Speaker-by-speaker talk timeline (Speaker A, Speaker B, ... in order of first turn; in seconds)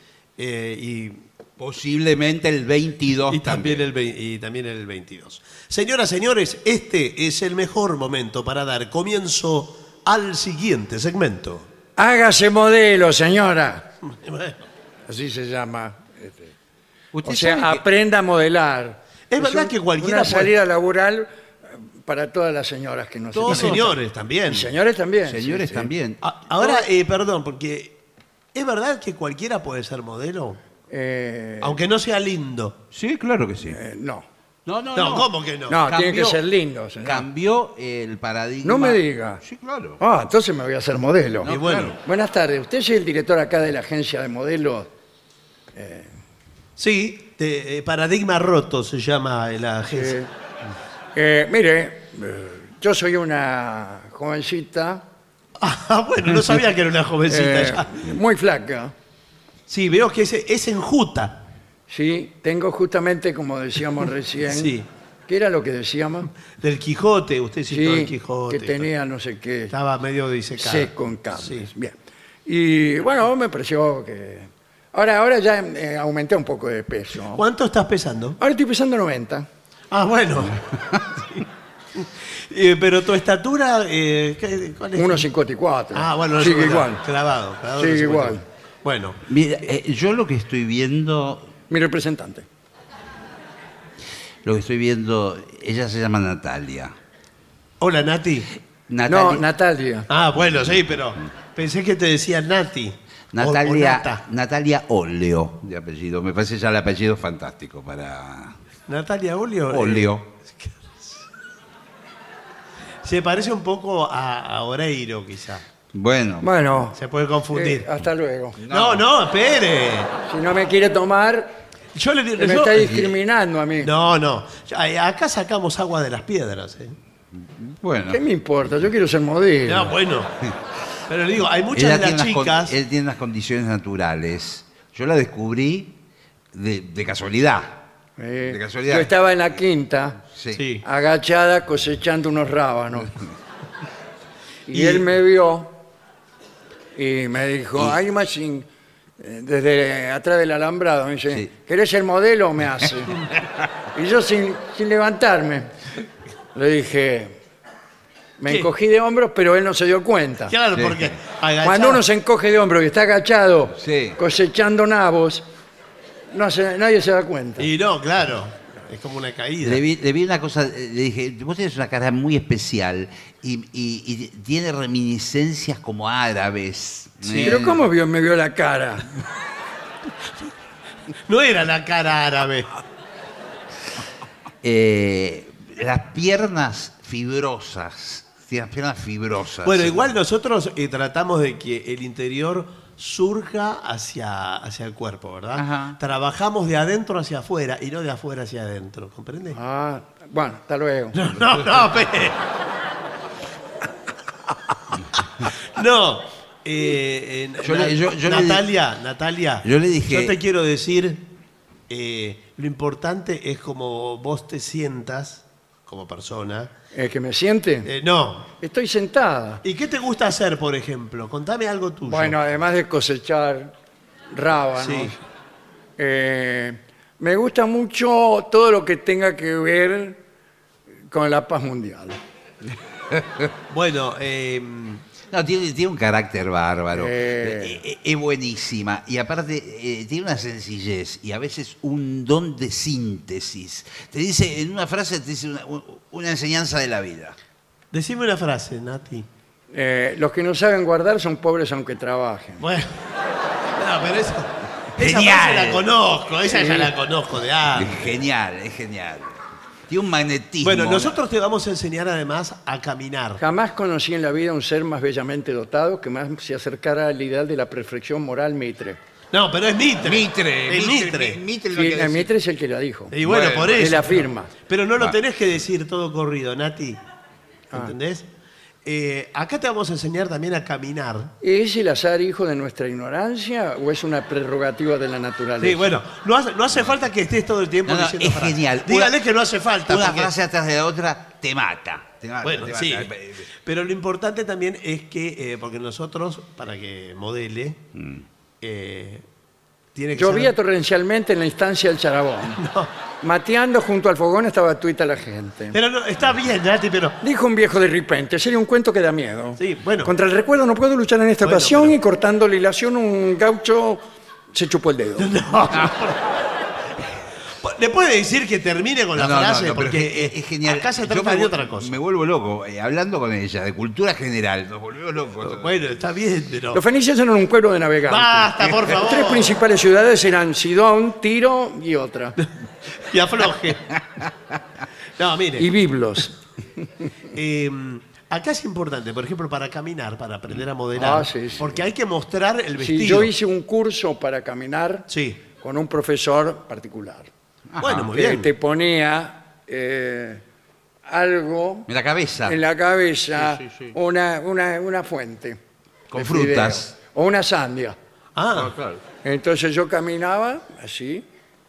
Speaker A: 0.4-1.2, 3.3-11.7, 14.1-14.6, 19.3-20.5, 23.5-24.7, 26.2-28.0, 28.5-30.6, 31.6-32.8, 35.0-35.8, 41.5-41.9, 46.8-50.2, 55.6-58.0, 59.7-61.5, 64.5-64.9, 66.5-68.9, 69.7-71.7, 77.3-78.4, 79.9-80.6, 81.2-81.4, 82.0-85.3, 85.9-89.2, 97.8-98.5, 100.1-104.2, 108.9-111.2, 113.0-115.6, 116.9-117.9, 118.7-120.1, 121.9-123.2, 123.8-127.0, 129.7-130.3, 131.1-132.7, 140.6-140.8, 144.8-145.0, 160.5-162.1, 167.6-169.8, 177.3-177.6, 181.3-182.7, 189.6-199.6, 201.1-202.4, 205.7-211.3, 211.9-216.7, 217.8-218.5, 219.6-222.4, 224.8-225.2, 233.7-235.1, 247.9-249.3, 252.6-253.0, 253.8-258.1, 260.6-263.4, 269.3-271.4, 273.1-277.0, 277.7-278.3, 278.9-281.3, 285.6-290.3, 292.4-293.1, 293.6-297.8, 298.6-299.2, 299.9-300.5, 302.6-302.9, 305.7-307.2, 309.6-310.1, 311.4-312.0, 315.2-316.2, 317.6-321.9, 325.4-326.8, 328.1-329.6, 333.1-333.8, 335.2-335.7, 337.3-343.3, 345.1-345.4, 347.8-348.5, 358.4-358.8
Speaker B: 1.6-3.9, 17.1-17.8, 23.3-23.9, 25.2-26.3, 32.9-33.8, 34.7-36.4, 37.0-40.0, 41.4-42.0, 89.3-91.5, 94.4-96.9, 98.9-99.4, 100.4-100.8, 103.3-108.5, 109.7-110.3, 115.9-116.5, 118.6-119.1, 127.4-128.2, 131.7-135.9, 136.5-137.8, 138.4-139.1, 140.3-140.6, 160.7-161.2, 163.8-164.2, 169.6-177.9, 184.6-190.1, 195.5-196.0, 207.6-208.7, 209.6-210.4, 235.3-247.4, 255.0-255.9, 257.7-261.2, 270.0-272.3, 273.2-273.9, 287.9-289.2, 289.8-293.5, 297.9-298.2, 319.1-325.9, 347.7-348.1, 351.9-352.6, 353.4-353.9, 356.1-356.9, 358.5-359.0
Speaker C: 12.0-13.9, 15.1-16.5, 17.2-24.0, 24.5-25.9, 26.6-26.9, 30.9-31.8, 33.7-34.3, 35.7-37.3, 38.6-39.4, 40.0-41.5, 42.0-44.9, 45.8-46.1, 49.9-50.3, 51.1-55.0, 57.3-58.9, 61.9-66.3, 67.7-69.7, 70.6-77.4, 78.4-79.5, 85.0-87.0, 87.8-88.4, 91.7-92.5, 99.1-100.1, 116.4-117.0, 117.5-118.6, 120.3-121.5, 122.4-123.9, 128.1-129.9, 138.2-140.2, 140.8-143.1, 144.7-145.8, 146.9-148.7, 149.2-153.3, 153.9-155.7, 156.5-157.4, 158.4-160.6, 161.6-165.4, 166.3-167.7, 177.4-179.1, 199.5-201.2, 216.9-217.9, 218.6-219.6, 222.1-223.7, 224.3-225.2, 226.0-230.2, 231.1-232.2, 236.9-237.8, 249.7-252.6, 256.5-257.0, 263.4-269.0, 271.7-274.5, 281.4-286.0, 300.1-302.6, 303.2-305.8, 307.2-314.0, 314.5-315.3, 326.7-332.4, 335.6-336.4, 340.9-341.7, 342.8-347.3, 348.1-350.4, 351.1-351.9, 352.5-355.6, 356.1-358.0, 359.2-361.2